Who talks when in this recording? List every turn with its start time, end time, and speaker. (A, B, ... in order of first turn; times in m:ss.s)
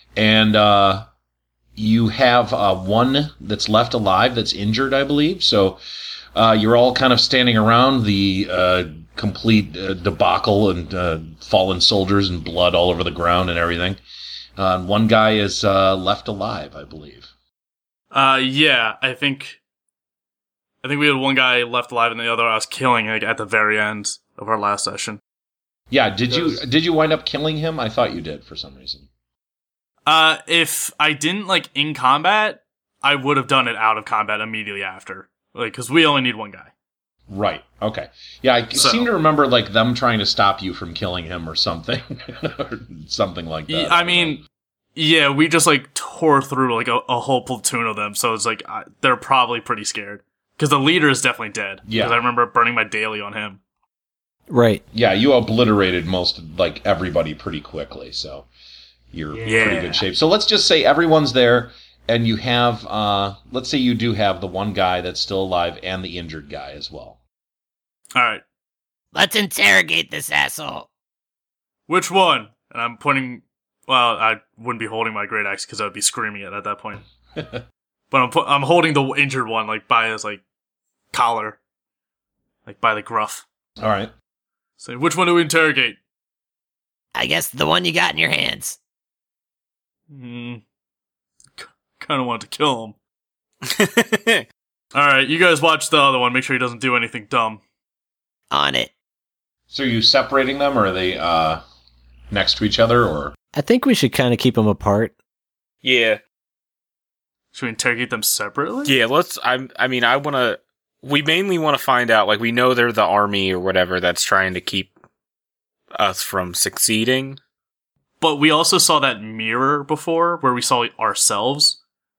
0:00.2-0:01.1 A
0:01.8-0:05.8 A
0:06.3-0:14.0 A
0:14.6-0:17.3 A
0:18.1-0:19.6 B
0:20.8-0:25.2 B
0:25.9-0:29.1 A
0:26.3-0:26.6 B
0:30.0-0:36.7 B
0:37.3-0:44.4 A
0:38.7-0:39.1 B
0:43.7-0:44.4 B
0:44.9-0:53.6 B
0:51.8-0:52.2 A
0:54.5-0:54.8 C
0:54.9-0:58.5 A
0:59.1-1:07.2 A
0:59.3-1:00.0 B
1:08.1-1:08.4 B
1:09.1-1:10.9 D
1:11.9-1:17.0 B
1:17.4-1:17.6 A
1:18.1-1:20.4 B
1:21.1-1:21.6 B
1:22.6-1:23.4 B
1:23.8-1:24.1 A
1:24.8-1:26.0 B
1:27.1-1:28.8 D
1:30.1-1:30.6 B
1:31.6-1:33.0 B
1:33.6-1:34.4 E
1:34.9-1:37.6 B
1:38.5-1:38.9 D
1:39.7-1:41.6 A
1:42.3-1:43.3 A
1:43.6-1:45.1 C
1:45.8-1:46.2 E
1:47.5-1:48.9 B
1:48.8-1:54.9 E
1:56.0-1:57.4 E
1:58.2-2:01.8 B